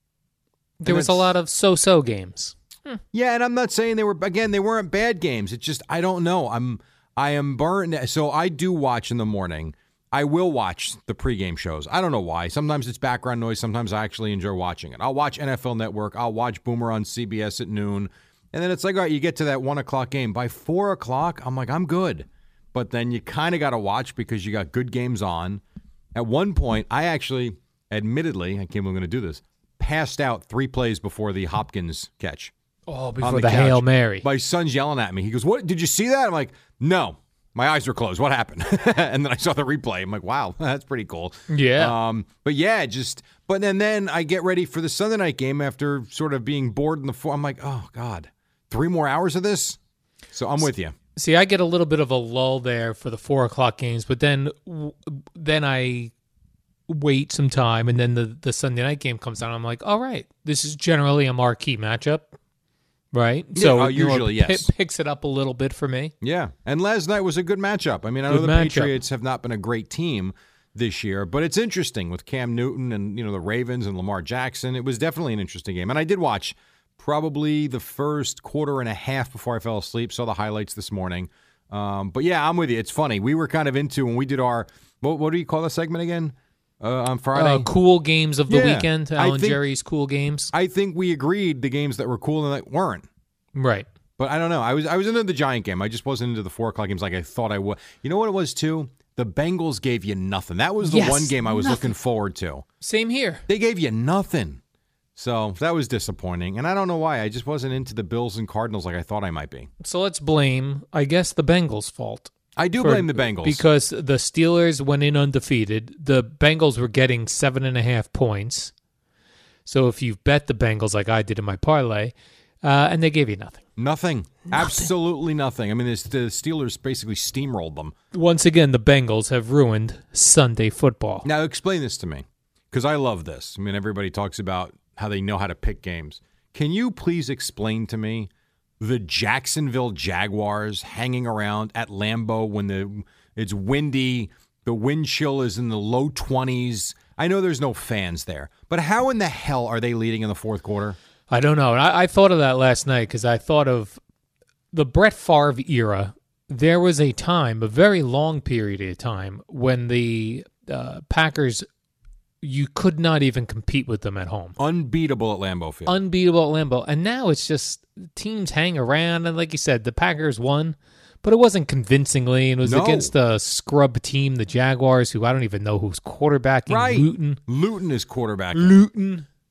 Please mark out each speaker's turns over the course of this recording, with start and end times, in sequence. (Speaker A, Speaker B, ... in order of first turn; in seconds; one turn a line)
Speaker A: 0.8-3.0
Speaker B: 0.8-1.3
Speaker B: 3.1-25.6
Speaker B: 26.1-32.5
Speaker A: 32.9-34.2
Speaker B: 33.2-49.8
Speaker A: 41.5-41.9
Speaker B: 50.3-50.9
Speaker A: 51.1-56.1
Speaker A: 56.9-62.4
Speaker A: 63.1-66.1
Speaker B: 63.5-64.7
Speaker B: 66.2-87.7
Speaker A: 68.3-68.9
Speaker A: 87.3-90.5
Speaker B: 88.5-89.6
Speaker B: 90.5-93.0
Speaker A: 93.5-93.9
Speaker B: 94.2-102.6
Speaker A: 100.8-101.9
Speaker A: 102.8-103.4
Speaker B: 103.5-104.6
Speaker B: 105.2-109.7
Speaker A: 109.8-118.7
Speaker B: 112.5-113.6
Speaker A: 119.7-123.6
Speaker B: 123.8-127.9
Speaker A: 124.5-124.9
Speaker A: 128.1-131.3
Speaker B: 131.2-138.3
Speaker B: 138.8-151.0
Speaker A: 151.3-154.0
Speaker A: 154.7-161.7
Speaker A: 162.4-164.6
Speaker B: 164.6-165.9
Speaker A: 165.9-177.4
Speaker B: 172.6-173.1
Speaker B: 176.7-178.8
Speaker A: 178.5-179.3